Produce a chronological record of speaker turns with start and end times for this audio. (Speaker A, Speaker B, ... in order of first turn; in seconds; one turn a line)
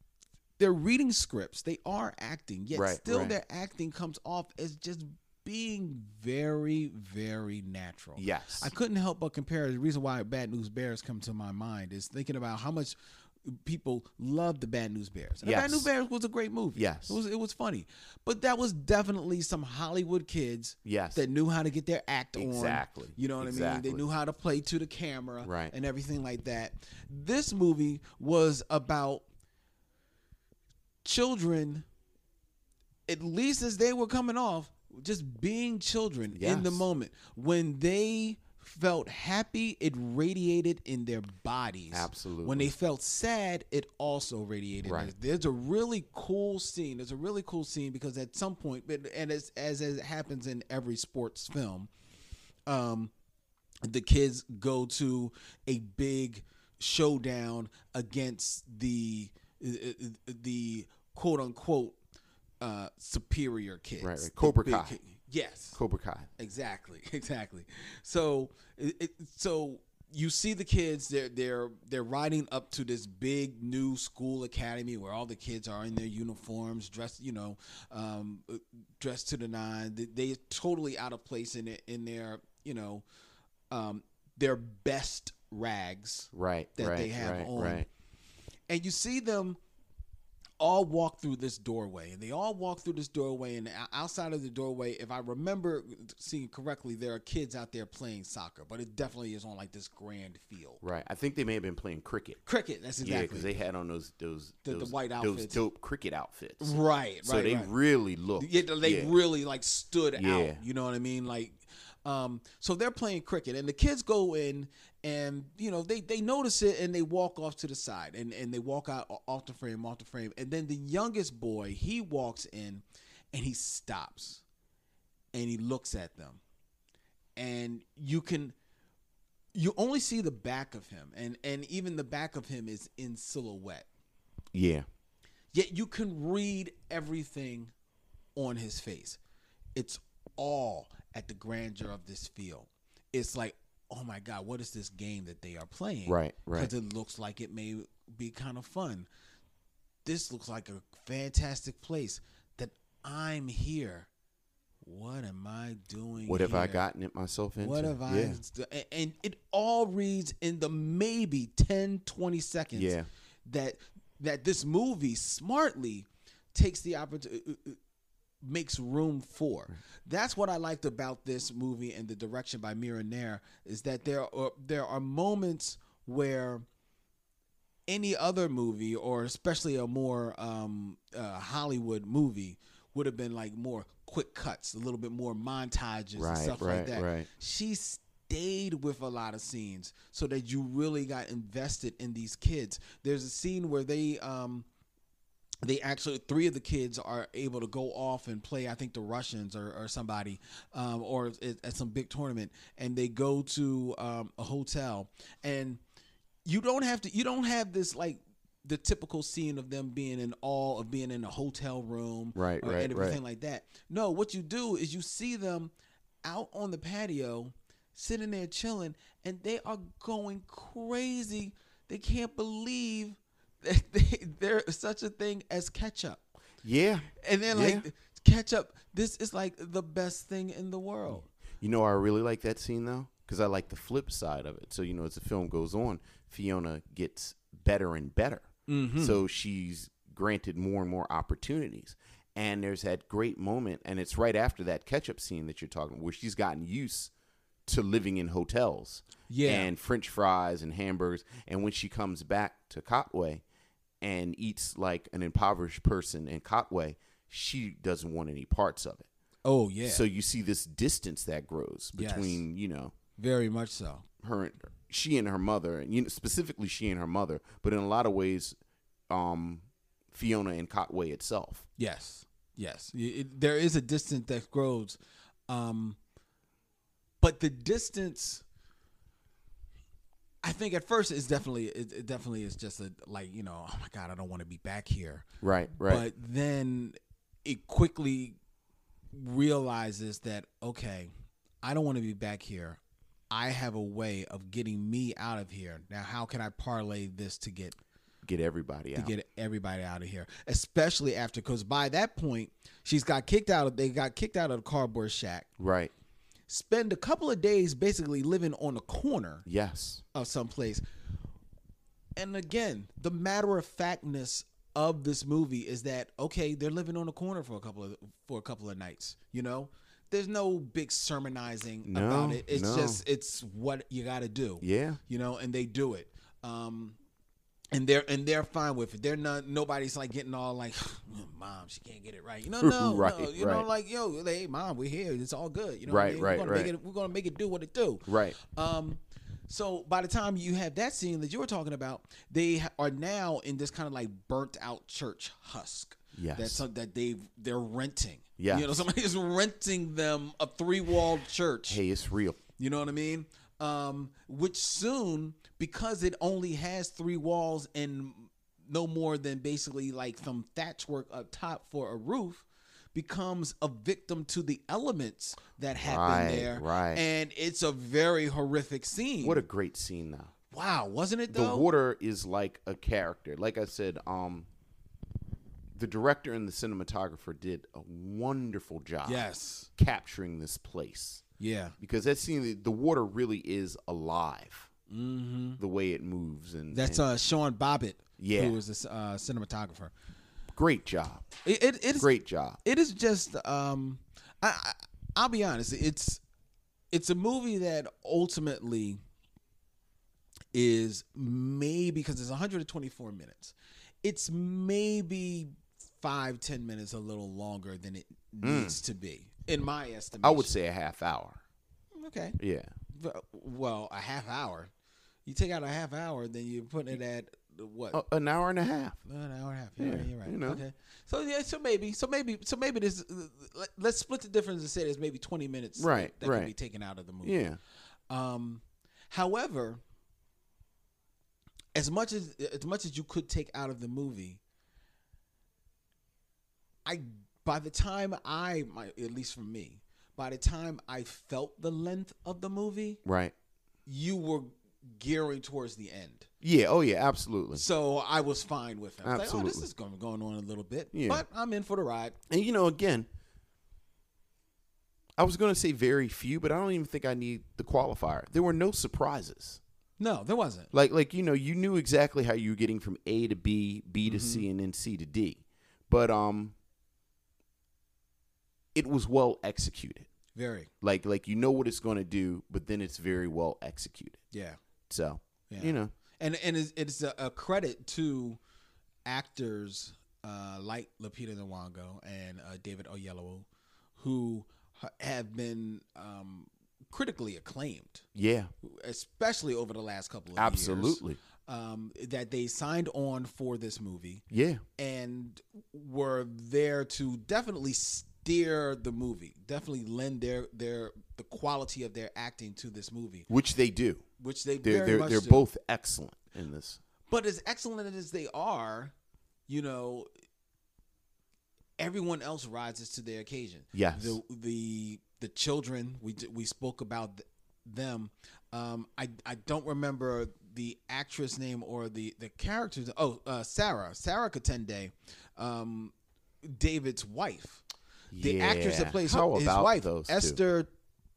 Speaker A: 0.6-29.2
Speaker B: 2.7-3.4
Speaker B: 8.2-8.7
Speaker B: 15.4-15.9
Speaker B: 16.7-17.2
Speaker B: 20.8-21.2
Speaker B: 22.4-24.1
Speaker B: 25.4-25.7
Speaker A: 31.0-31.8
Speaker A: 33.1-51.9
Speaker B: 36.3-36.9
Speaker B: 41.9-42.7
Speaker B: 44.8-45.1
Speaker A: 52.7-53.1
Speaker A: 53.8-62.0
Speaker A: 62.6-65.8
Speaker B: 64.0-65.0
Speaker B: 65.7-66.3
Speaker A: 66.4-83.0
Speaker A: 83.7-87.9
Speaker B: 86.3-87.9
Speaker A: 88.7-89.6
Speaker A: 90.6-100.8
Speaker B: 100.8-102.4
Speaker A: 102.5-103.5
Speaker B: 103.0-109.1
Speaker A: 104.6-105.6
Speaker A: 106.6-107.7
Speaker A: 108.4-124.4
Speaker B: 110.1-110.6
Speaker A: 125.3-126.4
Speaker A: 127.3-128.5
Speaker A: 129.5-133.9
Speaker B: 134.5-134.9
Speaker A: 135.5-137.7
Speaker A: 138.3-139.2
Speaker A: 139.8-149.1
Speaker B: 146.1-146.7
Speaker A: 150.0-154.1
Speaker A: 154.8-156.8
Speaker B: 156.2-158.4
Speaker A: 157.6-162.9
Speaker B: 162.7-163.1
Speaker A: 163.4-167.8
Speaker A: 168.4-176.6
Speaker A: 177.9-194.7
Speaker B: 186.2-187.3
Speaker A: 195.6-205.8
Speaker A: 206.4-215.7
Speaker B: 212.3-213.2
Speaker A: 216.2-226.2
Speaker B: 226.6-227.9
Speaker A: 227.2-231.3
Speaker B: 231.1-247.1
Speaker A: 238.7-239.2
Speaker B: 247.7-253.4
Speaker A: 249.3-249.7
Speaker B: 254.0-259.1
Speaker A: 259.4-260.0
Speaker B: 259.8-262.9
Speaker A: 261.9-262.4
Speaker A: 263.2-264.1
Speaker B: 264.2-268.6
Speaker B: 269.1-271.6
Speaker A: 271.8-275.0
Speaker A: 275.5-276.0
Speaker A: 277.2-278.4
Speaker A: 280.4-288.4
Speaker B: 285.4-286.1
Speaker A: 289.1-291.1
Speaker A: 291.6-292.8
Speaker A: 293.3-297.8
Speaker B: 298.2-299.1
Speaker A: 298.9-305.5
Speaker B: 305.6-305.9
Speaker A: 306.5-309.4
Speaker B: 309.4-310.0
Speaker A: 310.1-310.8
Speaker A: 312.1-327.0
Speaker B: 321.8-323.0
Speaker B: 324.6-325.0
Speaker A: 327.7-351.8
Speaker B: 332.6-333.7
Speaker B: 335.9-336.7
Speaker B: 338.1-338.4
Speaker B: 346.1-346.6
Speaker B: 348.4-348.7
Speaker B: 351.7-352.4
Speaker A: 352.6-369.4
Speaker B: 365.8-367.0
Speaker B: 369.2-370.3
Speaker A: 370.5-371.7
Speaker B: 371.3-374.5
Speaker B: 375.7-381.2
Speaker A: 379.0-379.7
Speaker A: 381.4-381.7
Speaker B: 381.8-384.7
Speaker A: 384.9-385.6
Speaker B: 385.6-387.0
Speaker A: 386.7-389.9
Speaker B: 388.2-388.6
Speaker B: 390.5-391.3
Speaker A: 391.4-392.1
Speaker B: 392.0-392.6
Speaker A: 392.6-396.2
Speaker A: 396.9-399.0
Speaker A: 400.5-410.5
Speaker B: 408.4-408.8
Speaker B: 410.2-411.4
Speaker A: 411.9-412.4
Speaker B: 412.4-412.7
Speaker A: 412.9-414.7
Speaker A: 415.2-418.0
Speaker B: 417.9-419.0
Speaker A: 419.0-427.4
Speaker B: 419.8-420.6
Speaker B: 425.8-426.5
Speaker B: 427.2-427.6
Speaker A: 428.1-429.8
Speaker A: 431.7-434.4
Speaker A: 436.8-443.0
Speaker B: 443.0-443.3
Speaker A: 443.9-446.3
Speaker B: 446.4-447.6
Speaker A: 447.5-452.2
Speaker B: 449.0-449.7
Speaker B: 450.9-451.2
Speaker B: 452.3-453.1
Speaker B: 455.2-459.6
Speaker A: 460.0-460.7
Speaker B: 460.7-466.5
Speaker A: 464.0-464.4
Speaker B: 468.7-470.1
Speaker A: 470.3-470.7
Speaker B: 470.8-474.2
Speaker A: 474.3-474.6
Speaker B: 474.9-475.9
Speaker A: 475.5-478.4
Speaker A: 479.1-483.4
Speaker A: 484.0-488.1
Speaker B: 488.1-488.5
Speaker A: 488.6-494.2
Speaker B: 490.3-491.2
Speaker B: 494.3-494.6
Speaker A: 494.8-503.3
Speaker B: 503.3-504.0
Speaker A: 504.2-505.4
Speaker B: 504.6-506.8
Speaker A: 507.1-508.9
Speaker A: 509.5-510.1
Speaker A: 511.8-527.6
Speaker B: 513.7-514.2
Speaker B: 528.1-530.4
Speaker A: 528.2-530.7